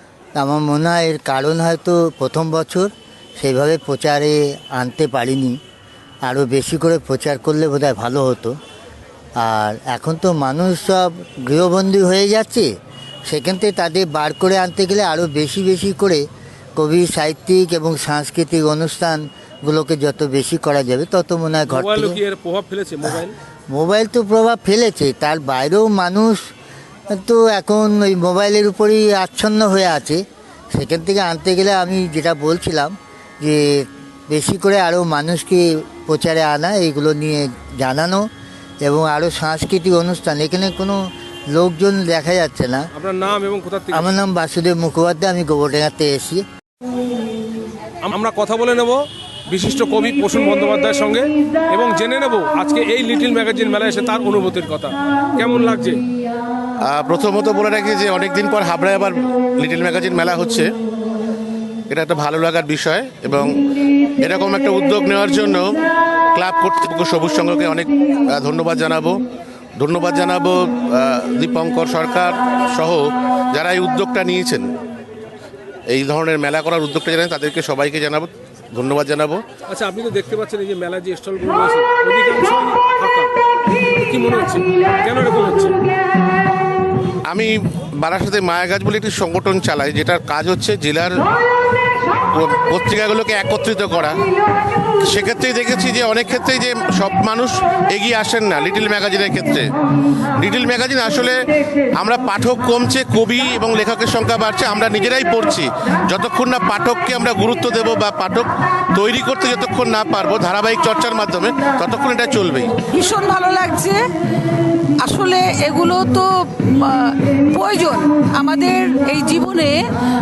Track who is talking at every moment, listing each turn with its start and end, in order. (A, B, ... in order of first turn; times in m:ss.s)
0:00.4-0:05.6 A
0:06.2-0:08.5 A
0:09.4-0:12.7 A
0:13.3-0:16.2 A
0:16.8-0:22.2 A
0:21.7-0:23.3 B
0:23.7-0:26.4 A
0:27.1-0:30.2 A
0:30.7-0:38.2 A
0:38.8-0:41.0 A
0:41.5-0:42.8 A
0:42.9-0:44.1 B
0:43.9-0:46.4 A
0:48.0-0:56.0 B
0:56.8-1:00.7 C
1:01.9-1:03.6 C
1:04.2-1:05.8 C
1:06.3-1:09.2 C
1:09.8-1:14.7 C
1:15.9-1:19.4 C
1:19.7-1:23.3 B
1:24.0-1:25.8 B
1:27.3-1:31.2 C
1:32.3-1:34.2 C
1:35.0-1:39.7 C
1:40.4-1:52.7 C
1:52.9-1:54.0 D
1:55.0-1:59.7 D